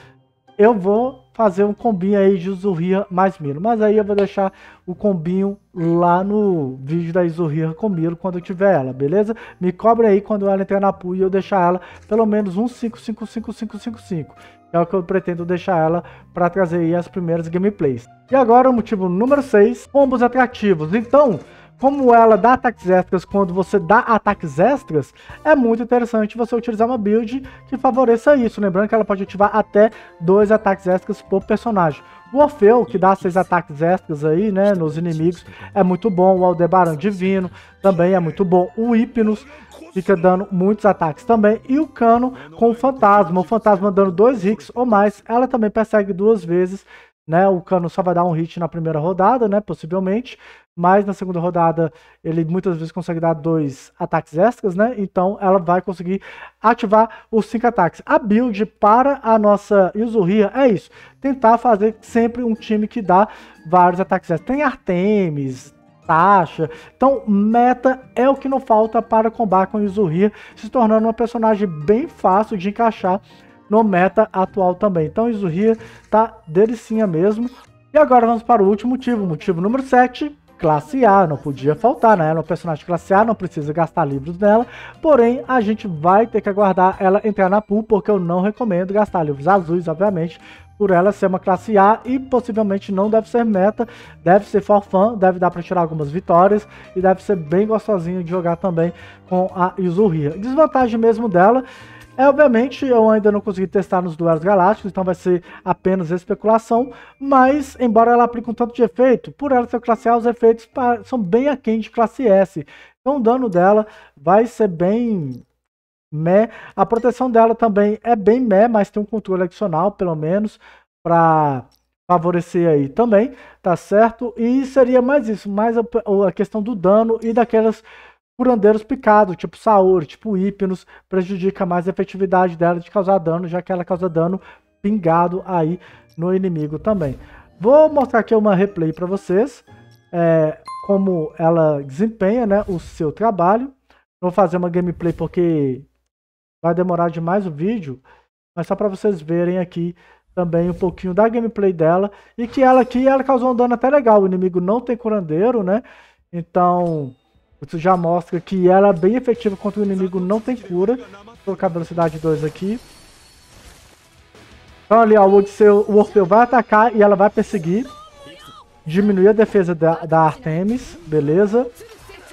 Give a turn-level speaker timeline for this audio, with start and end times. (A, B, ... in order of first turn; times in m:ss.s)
0:00.6-1:41.6 A
1:42.2-1:55.4 A
1:56.1-2:07.8 A
2:08.4-2:25.9 A
2:26.6-2:28.0 A
2:28.6-2:42.8 A
2:44.9-2:47.9 A
2:48.8-2:51.7 A